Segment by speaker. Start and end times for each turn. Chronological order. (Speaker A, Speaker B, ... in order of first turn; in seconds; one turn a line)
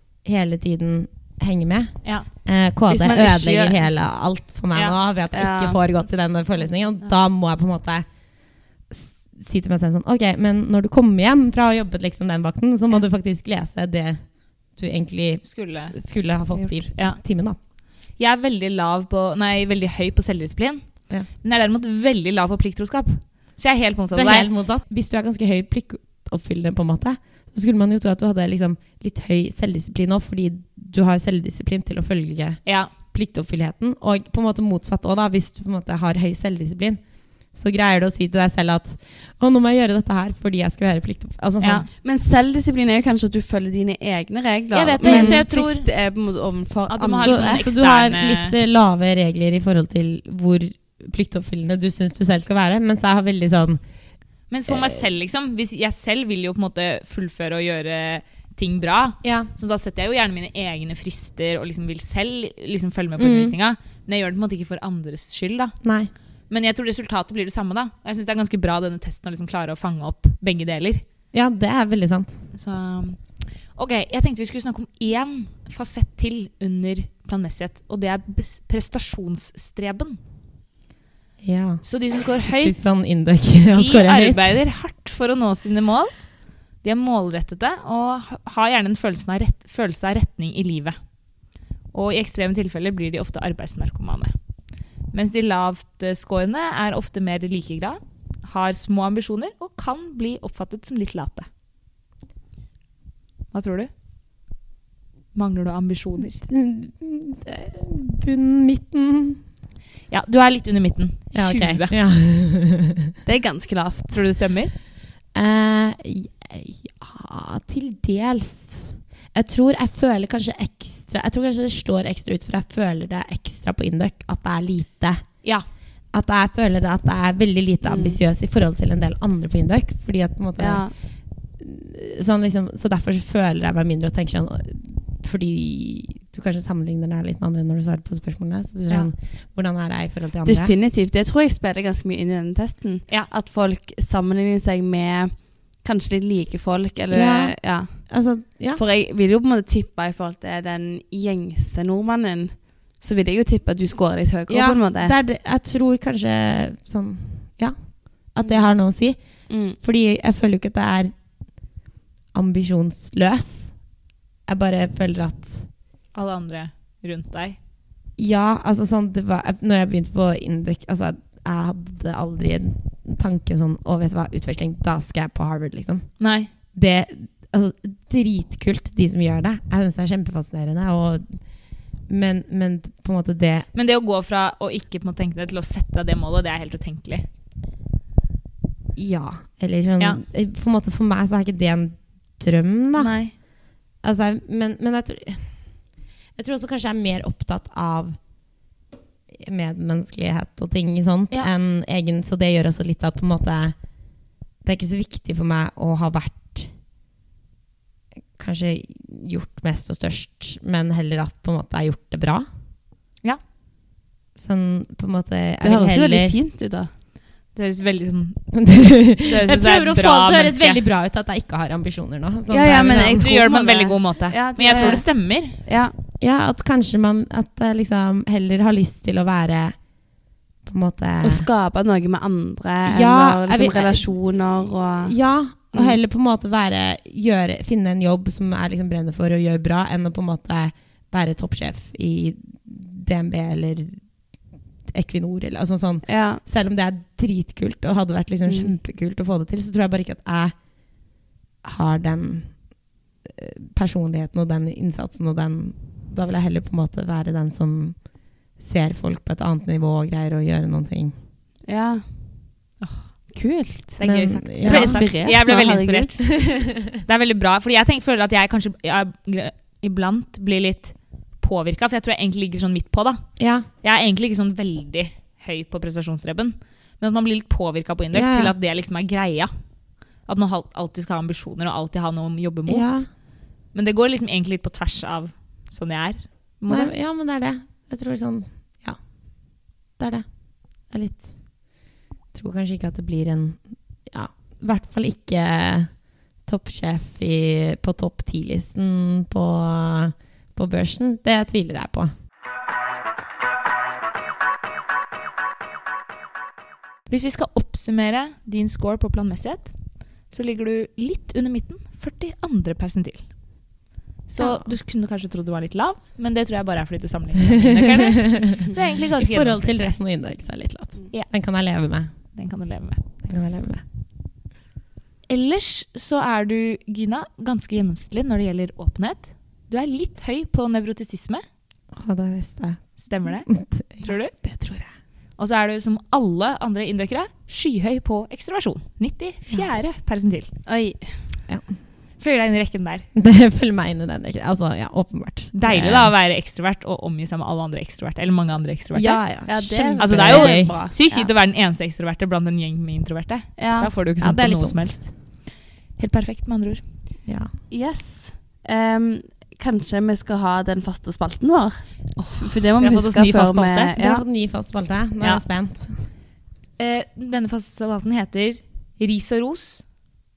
Speaker A: 0.2-8.1
Speaker B: 2.9-3.8
Speaker B: 5.3-5.8
Speaker A: 8.9-17.6
Speaker C: 15.4-16.0
Speaker C: 16.5-17.2
Speaker C: 18.2-24.5
Speaker A: 24.1-41.9
Speaker C: 32.6-32.9
Speaker C: 41.6-41.9
Speaker B: 42.0-47.7
Speaker C: 44.7-45.9
Speaker A: 45.0-45.4
Speaker C: 46.9-48.5
Speaker A: 47.1-53.8
Speaker C: 54.5-65.8
Speaker A: 54.7-55.0
Speaker A: 59.2-59.5
Speaker A: 63.2-63.5
Speaker A: 65.8-66.1
Speaker C: 66.5-71.0
Speaker A: 71.3-72.4
Speaker C: 72.5-80.2
Speaker A: 81.4-84.6
Speaker C: 81.8-82.9
Speaker C: 83.7-91.0
Speaker C: 91.9-94.3
Speaker C: 95.1-101.5
Speaker C: 103.5-103.9
Speaker C: 105.3-106.4
Speaker A: 106.2-109.4
Speaker C: 110.1-111.9
Speaker A: 111.3-113.1
Speaker B: 113.2-114.2
Speaker C: 114.1-114.7
Speaker A: 115.3-125.3
Speaker A: 126.1-130.9
Speaker B: 127.8-128.2
Speaker B: 130.6-130.9
Speaker A: 131.6-140.7
Speaker B: 140.4-155.1
Speaker A: 147.1-148.8
Speaker A: 154.5-161.1
Speaker B: 159.5-159.8
Speaker A: 162.3-163.9
Speaker A: 164.5-165.7
Speaker C: 166.1-167.6
Speaker A: 168.2-181.4
Speaker C: 176.2-176.5
Speaker A: 182.1-183.7
Speaker C: 183.7-187.3
Speaker A: 188.9-193.1
Speaker C: 192.9-193.3
Speaker A: 194.0-195.7
Speaker A: 196.3-198.2
Speaker A: 199.3-203.8
Speaker A: 204.6-206.7
Speaker A: 208.4-212.4
Speaker A: 214.3-216.3
Speaker B: 215.6-216.9
Speaker C: 217.5-218.6
Speaker A: 218.5-223.3
Speaker C: 219.1-220.8
Speaker B: 222.5-225.9
Speaker C: 223.2-225.6
Speaker A: 224.7-225.0
Speaker A: 226.2-229.8
Speaker A: 230.6-231.5
Speaker B: 231.2-235.1
Speaker A: 232.8-234.1
Speaker A: 235.0-244.0
Speaker B: 235.7-236.0
Speaker A: 244.9-250.6
Speaker B: 246.1-246.4
Speaker B: 248.5-248.7
Speaker A: 251.6-252.5
Speaker A: 253.2-258.0
Speaker A: 258.6-261.1
Speaker B: 261.7-262.1
Speaker C: 262.8-263.1
Speaker B: 263.3-264.0
Speaker C: 263.9-266.3
Speaker A: 264.0-265.0
Speaker B: 264.6-266.3
Speaker A: 266.4-266.9
Speaker C: 266.9-273.2
Speaker A: 273.4-273.7
Speaker C: 273.8-279.5
Speaker A: 278.1-278.5
Speaker C: 280.2-283.0
Speaker A: 282.7-283.1
Speaker C: 283.7-286.9
Speaker A: 286.7-289.0
Speaker A: 290.0-290.2
Speaker A: 290.8-291.5
Speaker A: 292.3-302.1
Speaker C: 307.1-313.3
Speaker C: 314.3-319.9
Speaker A: 317.5-322.1
Speaker C: 322.3-323.0
Speaker A: 323.2-323.8
Speaker C: 325.3-331.4
Speaker A: 331.9-334.9
Speaker C: 333.0-334.3
Speaker C: 335.4-340.5
Speaker B: 340.6-341.1
Speaker C: 342.2-343.1
Speaker A: 343.1-346.1
Speaker C: 345.5-349.2
Speaker A: 348.9-350.7
Speaker B: 349.5-351.3
Speaker C: 350.0-355.1
Speaker B: 353.6-353.9
Speaker A: 354.2-355.0
Speaker C: 356.0-356.8
Speaker A: 357.2-357.5
Speaker B: 357.7-361.8
Speaker C: 362.2-363.9
Speaker B: 362.3-364.2
Speaker A: 363.9-366.0
Speaker C: 366.8-369.9